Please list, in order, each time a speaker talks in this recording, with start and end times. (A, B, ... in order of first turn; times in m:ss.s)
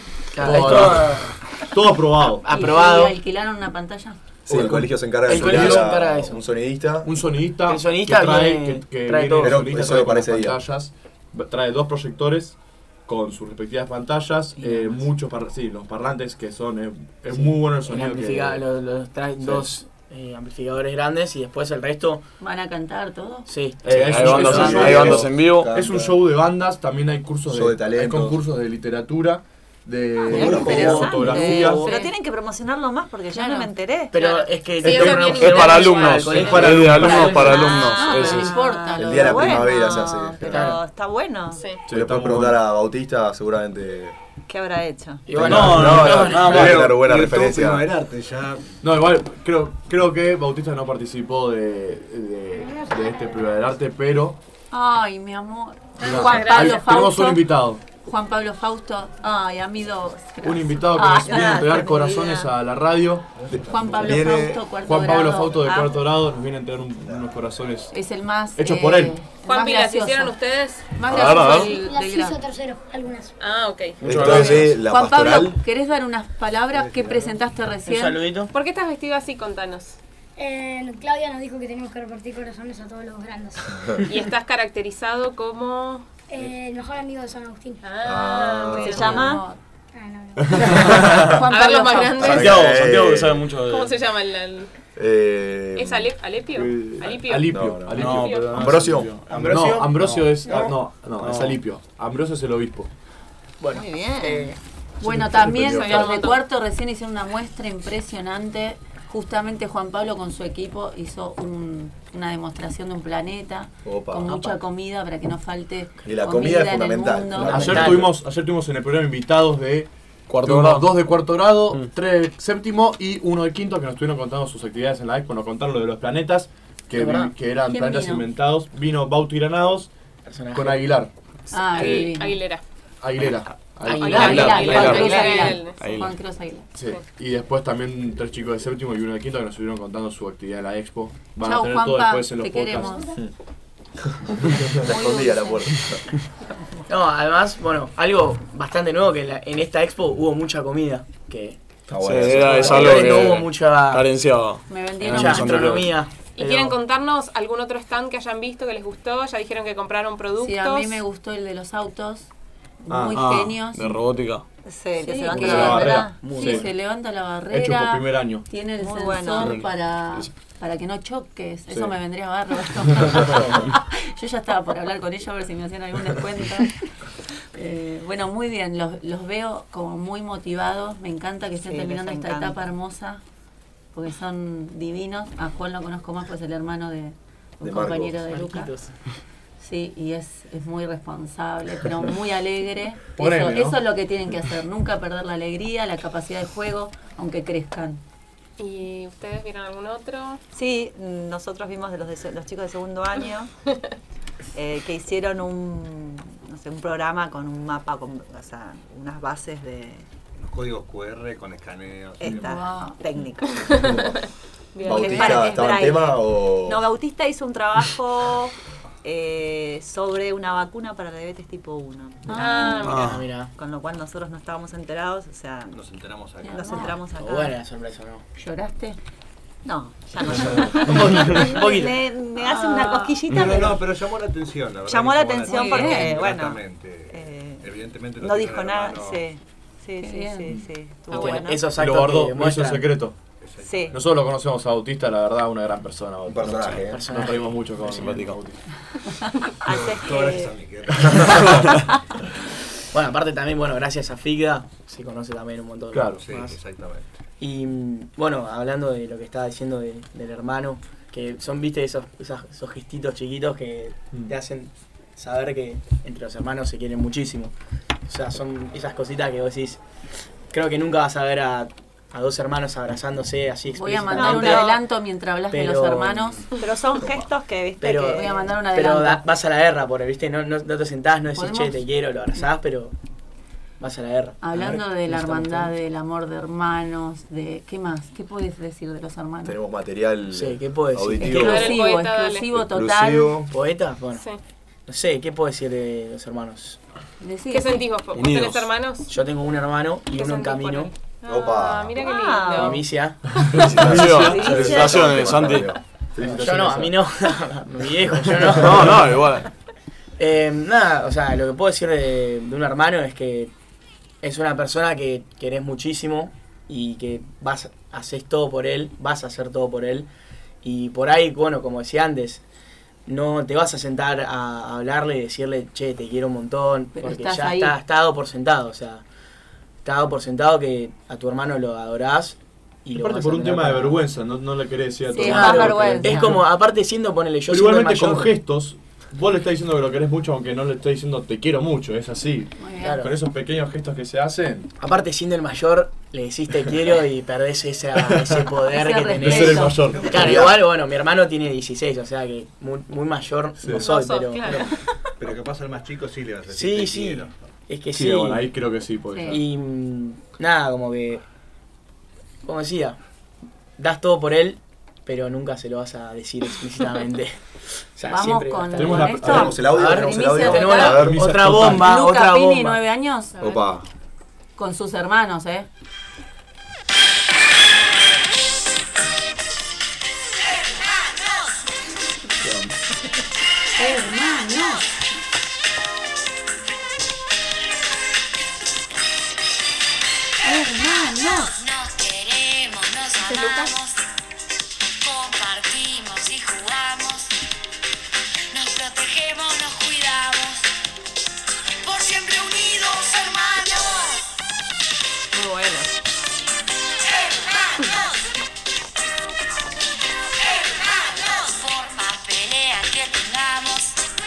0:00.3-0:01.4 A
0:00.4-0:01.1 B
0:00.4-0:02.5 C
0:02.2-0:03.2 A
0:02.5-0:04.2 D
0:04.5-0:07.1 E
0:04.5-0:05.9 C
0:05.2-0:06.4 A
0:07.0-0:18.6 C
0:07.6-0:09.7 A
0:09.4-0:10.6 E
0:14.6-0:15.1 A
0:17.3-0:22.2 A
0:19.4-0:19.7 C
0:22.4-0:23.5 D
0:23.5-0:25.0 A
0:23.8-0:31.9 C
0:23.9-0:25.7 B
0:24.2-0:26.2 E
0:27.5-0:28.4 E
0:30.2-0:34.4 F
0:30.3-0:32.0 A
0:30.3-0:30.6 E
0:31.6-0:32.1 D
0:33.3-0:33.7 D
0:34.1-0:37.6 A
0:34.2-0:38.0 G
0:34.9-0:38.5 B
0:36.4-0:37.3 C
0:37.1-0:39.8 D
0:37.2-0:41.7 F
0:39.0-0:40.7 E
0:40.4-0:40.8 A
0:41.5-0:41.8 G
0:41.8-0:42.6 C
0:41.9-0:44.2 E
0:44.5-0:45.5 F
0:45.3-0:46.8 A
0:45.4-0:47.9 E
0:45.4-0:46.9 B
0:45.5-0:46.3 C
0:46.4-0:48.8 H
0:48.8-0:54.4 C
0:52.5-0:53.5 I
0:54.7-1:01.8 D
0:56.0-0:56.8 G
0:56.0-0:57.8 C
1:00.4-1:03.3 C
1:01.2-1:02.5 F
1:03.4-1:03.9 H
1:03.5-1:04.6 E
1:03.7-1:05.9 D
1:04.8-1:07.9 C
1:07.9-1:10.3 D
1:08.6-1:09.2 C
1:09.4-1:10.9 G
1:10.9-1:12.4 D
1:11.1-1:11.7 B
1:11.5-1:13.4 I
1:13.4-1:14.4 G
1:14.0-1:14.7 B
1:14.0-1:15.6 E
1:14.2-1:18.2 D
1:16.7-1:17.3 H
1:17.8-1:18.5 A
1:18.5-1:20.0 G
1:20.4-1:23.9 I
1:24.0-1:26.1 G
1:26.3-1:27.8 I
1:27.8-1:29.2 G
1:28.0-1:29.0 E
1:28.8-1:29.6 D
1:28.8-1:29.4 F
1:29.9-1:30.9 I
1:30.6-1:31.2 C
1:31.2-1:32.3 D
1:31.5-1:32.6 G
1:32.2-1:33.4 E
1:32.2-1:33.9 B
1:33.6-1:34.7 G
1:35.0-1:36.1 E
1:35.8-1:38.4 G
1:36.5-1:42.9 C
1:37.5-1:39.3 E
1:37.9-1:40.4 B
1:39.3-1:40.8 A
1:41.2-1:41.6 B
1:43.6-1:44.6 A
1:43.7-1:44.5 F
1:45.0-1:57.7 D
1:45.0-1:46.2 C
1:45.6-1:46.4 G
1:53.8-1:54.4 E
1:56.0-1:58.1 E
1:57.4-1:58.1 A
1:57.4-1:59.9 C
2:00.3-2:00.9 B
2:00.4-2:09.9 C
2:06.9-2:07.3 A
2:07.7-2:08.3 D
2:10.2-2:11.0 A
2:10.5-2:11.1 C
2:11.5-2:12.4 D
2:11.6-2:12.6 G
2:11.7-2:12.1 C
2:13.0-2:15.0 C
2:13.2-2:16.2 B
2:13.8-2:15.3 A
2:14.0-2:15.8 G
2:14.1-2:16.7 D
2:16.7-2:23.0 C
2:21.4-2:23.1 D
2:24.1-2:26.1 E
2:24.8-2:25.6 D
2:26.9-2:31.6 A
2:31.9-2:33.4 E
2:32.0-2:35.9 B
2:32.5-2:34.1 A
2:34.7-2:35.8 D
2:35.0-2:36.8 A
2:36.4-2:41.0 G
2:40.4-2:42.3 D
2:42.8-2:43.9 D
2:42.9-2:43.5 C
2:43.1-2:44.4 B
2:44.6-2:46.2 F
2:45.0-2:56.9 D
2:45.3-2:46.6 C
2:46.1-2:46.6 A
2:47.5-2:48.4 C
2:48.8-2:49.6 F
2:49.4-2:50.3 B
2:57.5-3:03.2 D
3:01.6-3:02.6 F
3:03.9-3:08.7 D
3:07.6-3:08.2 E
3:08.3-3:08.9 A
3:09.6-3:18.0 D
3:13.2-3:13.8 C
3:18.6-3:20.4 G
3:20.5-3:23.5 F
3:24.5-3:30.1 F
3:30.4-3:32.4 H
3:32.2-3:34.1 F
3:32.2-3:33.0 D
3:33.6-3:34.2 G
3:34.7-3:35.5 G
3:34.8-3:42.9 F
3:34.8-3:36.8 E
3:42.3-3:42.9 D
3:42.3-3:43.1 G
3:42.8-3:43.2 B
3:42.9-3:43.5 A
3:43.5-3:45.8 F
3:45.7-3:46.9 H
3:46.4-3:47.6 F
3:46.4-3:47.0 D
3:47.1-3:48.2 A
3:48.4-3:49.0 D
3:49.6-3:53.9 F
3:50.7-3:52.1 A
3:52.4-3:53.2 D
3:53.3-3:59.2 H
3:54.9-4:01.7 F
3:55.4-3:56.2 D
4:00.0-4:00.5 D
4:01.1-4:01.5 G
4:01.1-4:03.0 A
4:01.7-4:03.2 C
4:03.4-4:04.0 H
4:03.6-4:04.0 F
4:03.9-4:08.6 C
4:06.2-4:07.1 E
4:06.9-4:08.0 A
4:07.9-4:08.4 B
4:09.6-4:11.9 F
4:09.6-4:11.7 H
4:12.9-4:16.6 A
4:15.9-4:16.2 C
4:16.2-4:17.1 H
4:17.4-4:27.5 A
4:28.1-4:29.8 A
4:30.5-4:34.7 A
4:33.7-4:36.5 D
4:34.1-4:34.8 F
4:35.5-4:36.5 A
4:36.6-4:38.4 F
4:37.8-4:42.9 A
4:38.1-4:39.2 D
4:41.3-4:41.8 D
4:43.8-4:45.7 A
4:44.4-4:49.6 D
4:49.4-4:51.8 E
4:50.3-4:51.6 A
4:51.2-4:53.3 D
4:51.2-4:52.4 G
4:52.5-4:53.5 E
4:53.5-4:54.3 A
4:54.9-4:56.8 A
4:57.2-4:57.8 D
4:57.5-4:59.1 G
4:58.1-4:58.7 B
4:59.1-5:00.9 A
5:00.1-5:02.8 G
5:01.2-5:02.0 E
5:02.0-5:02.9 F
5:02.6-5:03.4 A
5:03.4-5:03.7 G
5:03.5-5:06.6 E
5:03.6-5:05.7 B
5:03.6-5:04.7 C
5:03.8-5:05.5 F
5:06.2-5:07.0 C
5:06.2-5:09.2 A
5:08.5-5:09.2 C
5:08.6-5:09.5 B
5:10.2-5:13.5 A
5:14.2-5:20.1 A
5:20.6-5:22.4 A
5:23.0-5:29.0 A
5:26.9-5:27.7 D
5:29.8-5:34.0 A
5:32.9-5:36.4 C
5:35.1-5:36.4 D
5:35.2-5:38.3 A
5:35.4-5:36.0 F
5:37.5-5:44.7 C
5:42.6-5:43.0 D
5:42.8-5:43.1 A
5:44.8-5:54.7 A
5:48.1-5:48.4 C
5:48.7-5:50.0 D
5:49.2-5:50.5 C
5:49.8-5:50.3 H
5:50.0-5:50.5 E
5:53.7-5:54.7 G
5:55.2-5:57.5 H
5:56.5-5:58.6 A
5:57.9-5:59.4 C
5:59.1-5:59.4 D
5:59.3-6:01.2 A
6:02.4-6:03.0 A
6:03.8-6:07.4 A
6:08.0-6:12.8 A
6:08.0-6:13.5 D
6:08.8-6:09.7 C
6:09.2-6:11.5 E
6:10.9-6:12.0 C
6:13.4-6:13.8 E
6:14.6-6:15.7 D
6:23.8-6:24.8 D
6:30.4-6:31.5 D
6:31.2-6:34.0 J
6:33.3-6:33.7 G
6:35.0-6:37.3 J
6:38.5-6:40.6 J
6:41.8-6:44.2 J
6:45.3-6:46.0 G
6:47.7-6:48.1 J
6:50.5-6:54.0 J